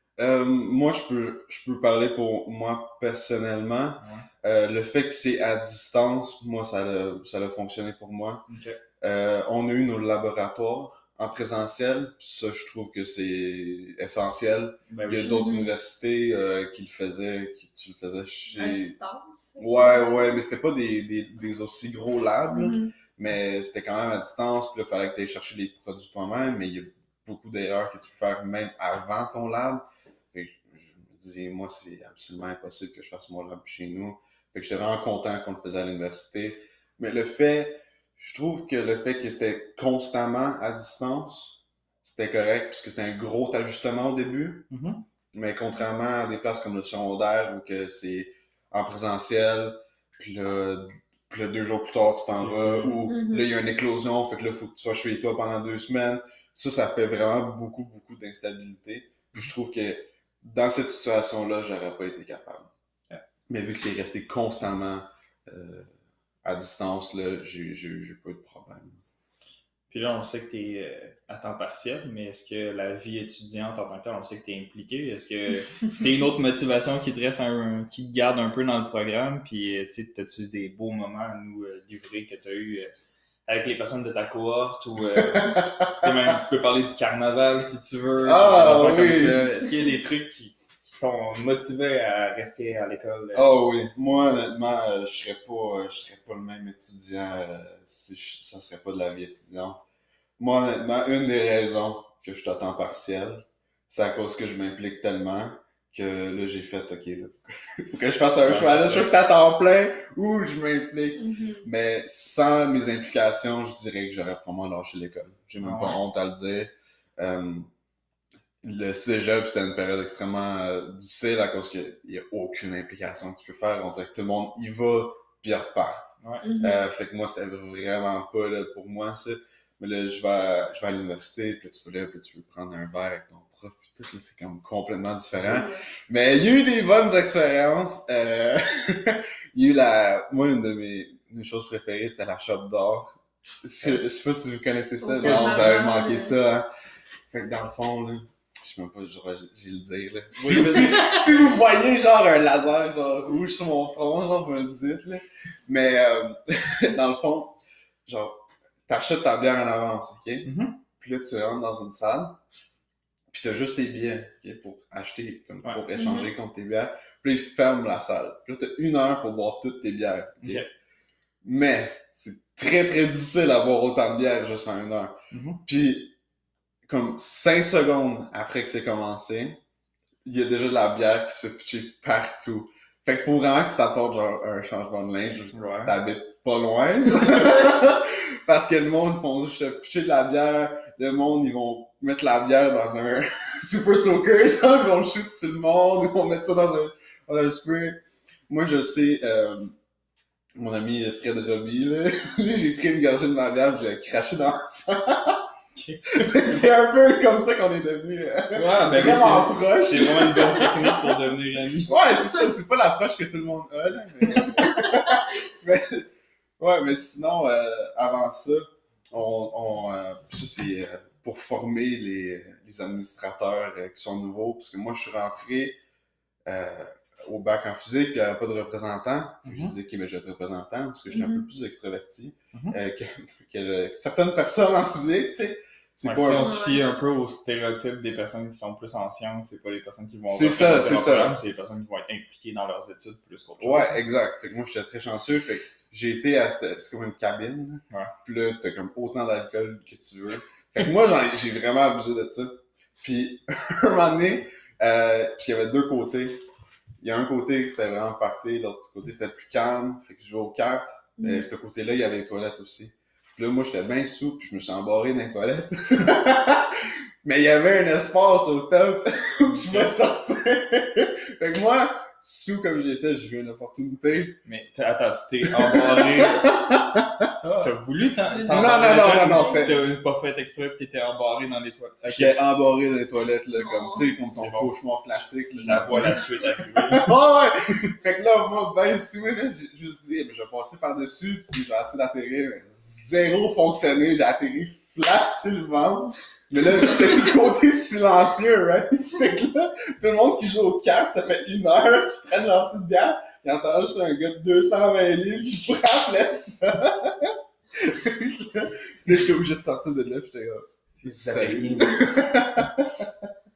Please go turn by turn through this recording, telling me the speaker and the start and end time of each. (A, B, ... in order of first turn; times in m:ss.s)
0:00.2-0:08.4 A
0:04.0-0:04.3 B
0:08.5-0:08.8 B
0:09.0-0:18.9 A
0:14.9-0:15.4 B
0:15.2-0:15.7 C
0:18.5-0:20.3 C
0:19.6-0:44.7 A
0:22.5-0:22.9 C
0:44.7-0:45.0 B
0:45.3-1:02.7 A
0:52.3-0:53.1 B
0:53.1-0:53.5 C
1:03.5-1:05.9 A
1:06.4-1:09.0 A
1:09.9-1:33.5 B
1:25.1-1:26.3 A
1:28.2-1:29.5 A
1:33.3-1:39.8 A
1:40.4-1:57.7 A
1:48.4-1:49.1 B
1:51.2-1:51.6 C
1:55.6-1:56.0 B
1:58.6-2:26.7 A
2:06.2-2:06.4 B
2:06.4-2:06.8 C
2:15.3-2:15.6 B
2:15.5-2:15.8 C
2:25.0-2:26.4 C
2:25.2-2:25.7 B
2:27.3-2:42.4 A
2:30.4-2:31.1 B
2:40.4-2:40.8 B
2:43.3-2:50.6 A
2:46.0-2:46.3 C
2:50.4-2:50.7 B
2:51.4-2:56.1 A
2:55.3-2:55.6 B
2:56.8-2:59.6 A
3:00.2-3:19.8 A
3:05.5-3:06.0 B
3:20.5-3:25.5 A
3:25.8-3:26.7 B
3:26.1-3:31.2 A
3:28.5-3:31.9 B
3:31.8-3:36.1 A
3:36.6-3:45.8 A
3:46.4-3:56.6 A
3:49.4-3:49.7 B
3:51.1-3:51.5 C
3:56.0-4:04.0 B
3:56.3-3:56.9 C
4:00.3-4:01.4 A
4:03.6-4:16.4 A
4:17.0-4:34.4 A
4:21.2-4:21.4 C
4:34.4-4:36.6 B
4:35.4-4:37.7 A
4:37.4-4:42.4 B
4:38.3-4:39.7 C
4:38.5-4:39.8 A
4:42.1-5:13.3 A
4:43.5-4:44.1 C
4:44.1-4:44.7 B
4:45.6-4:47.1 B
5:10.9-5:12.0 B